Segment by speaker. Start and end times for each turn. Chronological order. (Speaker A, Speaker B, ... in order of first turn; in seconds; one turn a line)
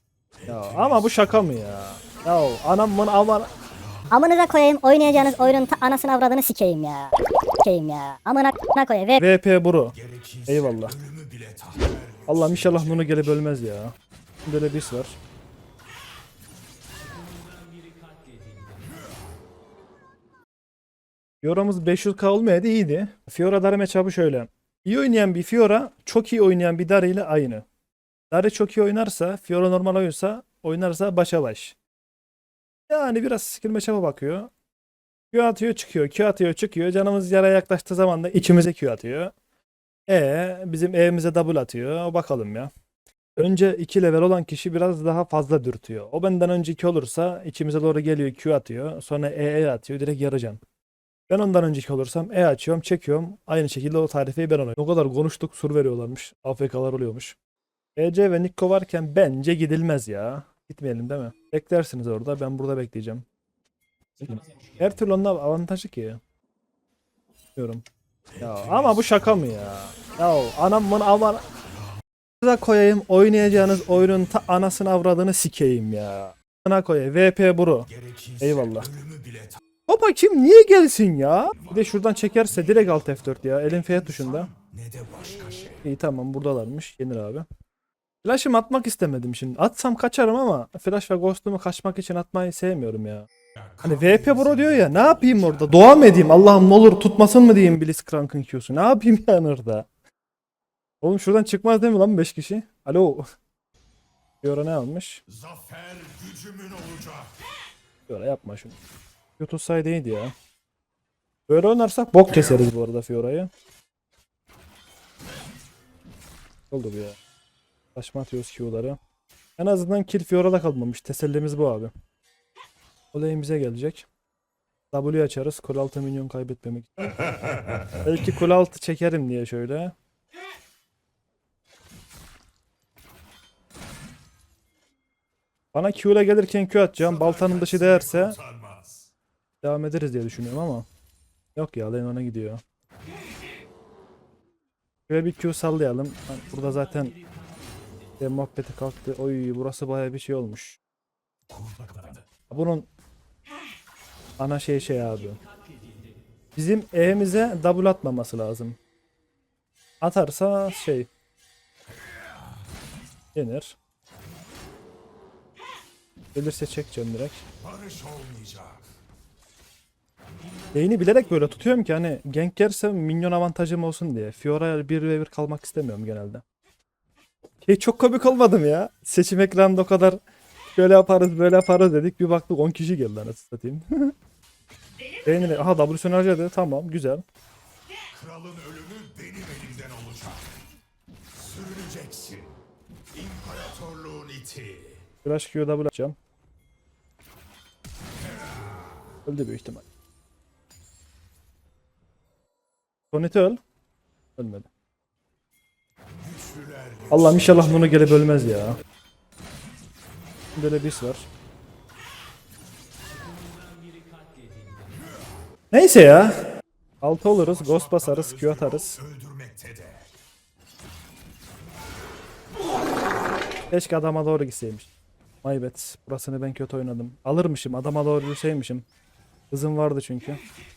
Speaker A: 0.4-1.6
Speaker B: 0.5-3.5
Speaker A: 3.8-4.1
Speaker C: 4.1-9.2
Speaker B: 9.2-9.9
Speaker A: 9.9-13.2
Speaker B: 10.5-10.9
Speaker B: 12.3-13.9
Speaker B: 14.5-15.2
Speaker B: 21.4-27.6
Speaker B: 28.3-31.8
Speaker B: 32.9-34.5
Speaker B: 35.3-39.3
Speaker B: 40.1-42.7
Speaker B: 43.4-50.6
Speaker B: 51.3-57.4
Speaker B: 58.0-63.3
Speaker B: 64.2-66.2
Speaker B: 67.6-67.8
Speaker A: 68.3-69.4
Speaker B: 68.4-71.4
Speaker B: 72.4-77.9
Speaker A: 77.9-79.6
Speaker B: 78.4-78.9
Speaker B: 79.9-84.5
Speaker A: 81.6-82.0
Speaker A: 82.7-85.9
Speaker B: 85.8-87.5
Speaker B: 88.2-93.3
Speaker A: 93.6-96.0
Speaker B: 93.8-99.9
Speaker B: 101.0-103.2
Speaker B: 104.4-105.2
Speaker A: 105.3-107.4
Speaker B: 108.1-108.8
Speaker B: 109.4-110.3
Speaker B: 111.5-113.5
Speaker B: 116.7-117.2
Speaker B: 118.0-119.0
Speaker B: 119.6-121.9
Speaker B: 123.1-124.1
Speaker B: 124.9-127.2
Speaker B: 128.0-129.9
Speaker B: 135.7-138.4
Speaker A: 137.0-139.1
Speaker B: 139.6-140.9
Speaker B: 141.6-142.6
Speaker B: 145.1-147.2
Speaker B: 148.2-150.8
Speaker A: 151.5-152.3
Speaker B: 152.5-152.9
Speaker B: 154.4-155.4
Speaker B: 156.6-158.8
Speaker B: 160.0-161.1
Speaker B: 163.3-163.8
Speaker B: 166.3-167.4
Speaker A: 167.6-168.9
Speaker B: 170.7-176.4
Speaker B: 177.6-184.1
Speaker B: 185.3-187.2
Speaker A: 188.1-190.6
Speaker A: 191.4-192.6
Speaker A: 193.1-195.1
Speaker B: 195.2-196.2
Speaker B: 199.2-199.8
Speaker B: 203.1-203.6
Speaker B: 204.4-204.7
Speaker A: 206.2-208.1
Speaker B: 207.1-208.8
Speaker B: 210.6-211.3
Speaker B: 215.7-216.3
Speaker B: 217.0-219.0
Speaker A: 217.3-220.1
Speaker B: 223.7-224.9
Speaker B: 225.4-228.8
Speaker B: 229.5-230.4